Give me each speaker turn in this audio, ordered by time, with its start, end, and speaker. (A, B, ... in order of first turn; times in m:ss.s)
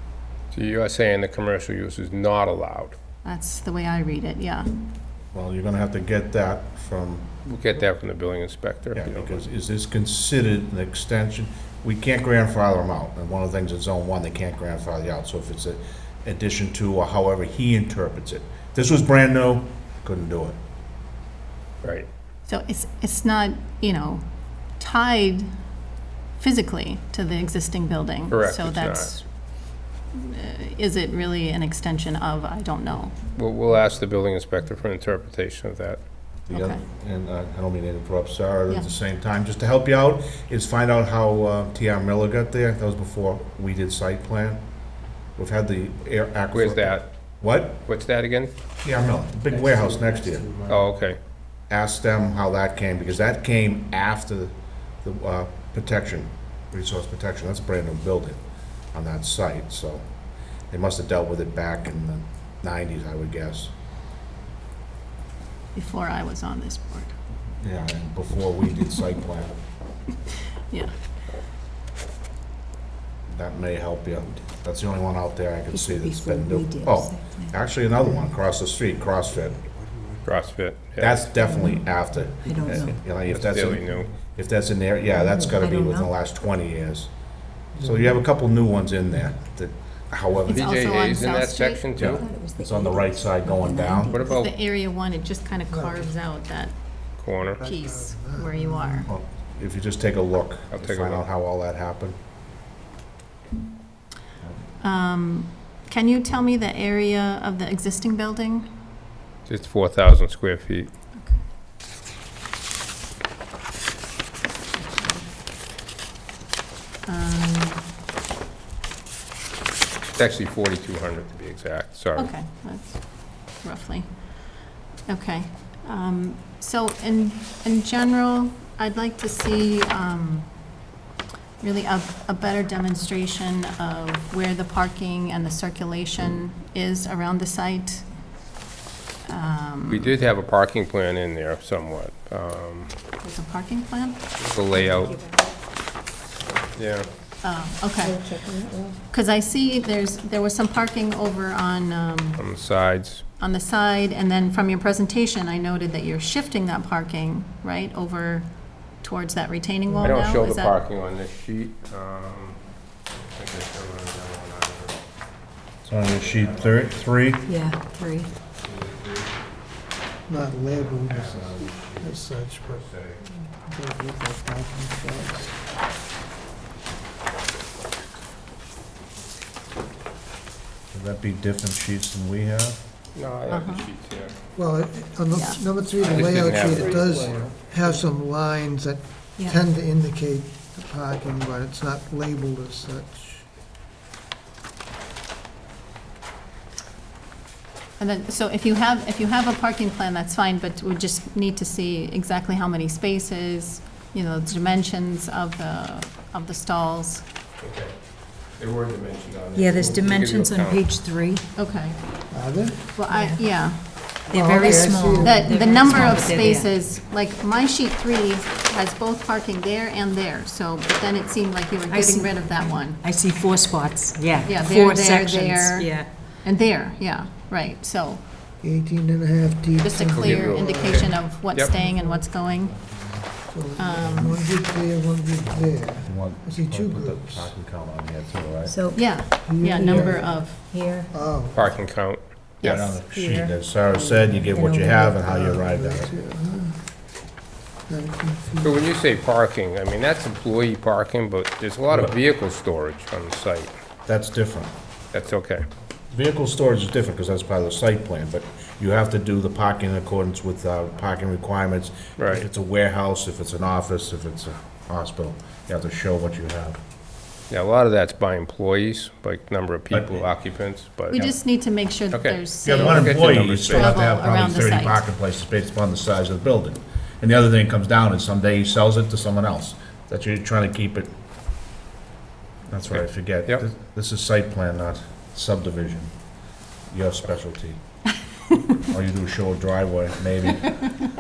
0:00.5-0:03.0 A
0:03.2-0:04.7 B
0:05.3-0:07.3 C
0:07.4-0:09.3 A
0:09.0-0:20.6 C
0:21.8-0:22.1 A
0:22.5-0:24.2 B
0:24.8-0:25.5 B
0:26.4-0:29.2 B
0:28.3-0:29.1 A
0:30.1-0:33.2 B
0:33.4-0:36.0 A
0:36.5-0:44.6 C
0:36.5-0:36.8 B
0:45.4-0:47.8 C
0:46.5-0:47.1 A
0:47.9-0:48.5 A
0:48.8-0:50.6 C
0:50.7-0:51.2 A
0:51.7-0:54.5 C
0:55.0-0:58.4 C
0:58.9-1:00.0 C
1:00.7-1:03.7 C
1:05.8-1:07.2 B
1:07.6-1:09.5 C
1:13.3-1:19.6 C
1:15.7-1:17.6 D
1:20.3-1:21.3 A
1:21.0-1:27.1 C
1:21.4-1:23.1 D
1:23.3-1:24.1 A
1:25.1-1:26.1 D
1:27.8-1:28.2 E
1:27.8-1:30.8 C
1:30.5-1:31.8 B
1:30.5-1:32.3 A
1:32.0-1:34.2 C
1:32.0-1:34.5 D
1:34.1-1:34.5 A
1:34.4-1:36.8 B
1:35.7-1:36.1 E
1:37.2-1:37.6 A
1:37.5-1:39.1 E
1:37.6-1:39.1 B
1:39.1-1:42.2 C
1:40.7-1:41.2 A
1:44.8-1:48.7 B
1:49.5-1:50.9 A
1:54.9-1:55.2 B
1:57.1-1:57.8 B
2:00.2-2:02.3 A
2:02.2-2:03.1 B
2:03.6-2:04.1 B
2:05.1-2:10.5 B
2:11.6-2:18.0 B
2:19.3-2:20.2 B
2:19.9-2:22.9 A
2:23.2-2:24.2 B
2:24.4-2:25.1 A
2:25.0-2:25.5 D
2:26.8-2:27.1 A
2:27.4-2:28.3 B
2:28.0-2:29.0 D
2:29.1-2:32.4 B
2:32.4-2:33.2 A
2:33.4-2:38.5 B
2:39.0-2:40.8 B
2:40.0-2:45.0 A
2:45.8-2:47.4 C
2:46.0-2:47.6 A
2:47.5-2:48.3 D
2:48.5-2:49.4 A
2:50.3-2:52.9 E
2:50.6-2:53.2 A
2:53.5-2:55.6 E
3:00.9-3:02.8 C
3:03.2-3:04.4 A
3:03.5-3:03.9 B
3:04.6-3:13.5 E
3:05.4-3:05.6 B
3:06.0-3:07.7 A
3:18.0-3:27.3 B
3:27.6-3:28.0 A
3:28.5-3:30.8 A
3:29.6-3:31.4 D
3:31.6-3:32.0 B
3:32.3-3:33.0 E
3:33.0-3:33.8 B
3:33.1-3:33.4 D
3:34.3-3:35.4 E
3:34.3-3:36.7 D
3:35.2-3:43.0 B
3:41.9-3:46.1 D
3:44.4-3:48.2 B
3:48.6-3:51.2 E
3:49.8-3:52.8 B
3:50.1-3:51.7 A
3:51.8-3:52.0 E
3:53.5-3:57.5 E
3:53.8-3:54.4 B
3:56.0-3:59.1 C
3:58.6-3:59.2 D
3:58.9-4:00.6 B
3:59.4-4:00.5 E
3:59.9-4:00.1 C
4:00.5-4:01.1 D
4:01.1-4:01.7 E
4:01.5-4:02.8 A
4:02.6-4:03.5 B
4:02.6-4:06.1 C
4:03.9-4:06.8 E
4:04.5-4:05.2 D
4:07.9-4:08.8 E
4:08.6-4:13.7 A
4:14.1-4:14.7 C
4:15.1-4:15.6 A
4:16.1-4:26.8 C
4:22.2-4:22.5 A
4:27.5-4:31.2 A
4:29.9-4:30.2 C
4:31.1-4:33.1 B
4:32.1-4:33.9 A
4:32.6-4:41.1 C
4:33.7-4:35.0 B
4:42.7-4:46.1 C
4:42.9-4:43.6 A
4:46.9-4:47.8 C
4:48.9-4:50.8 C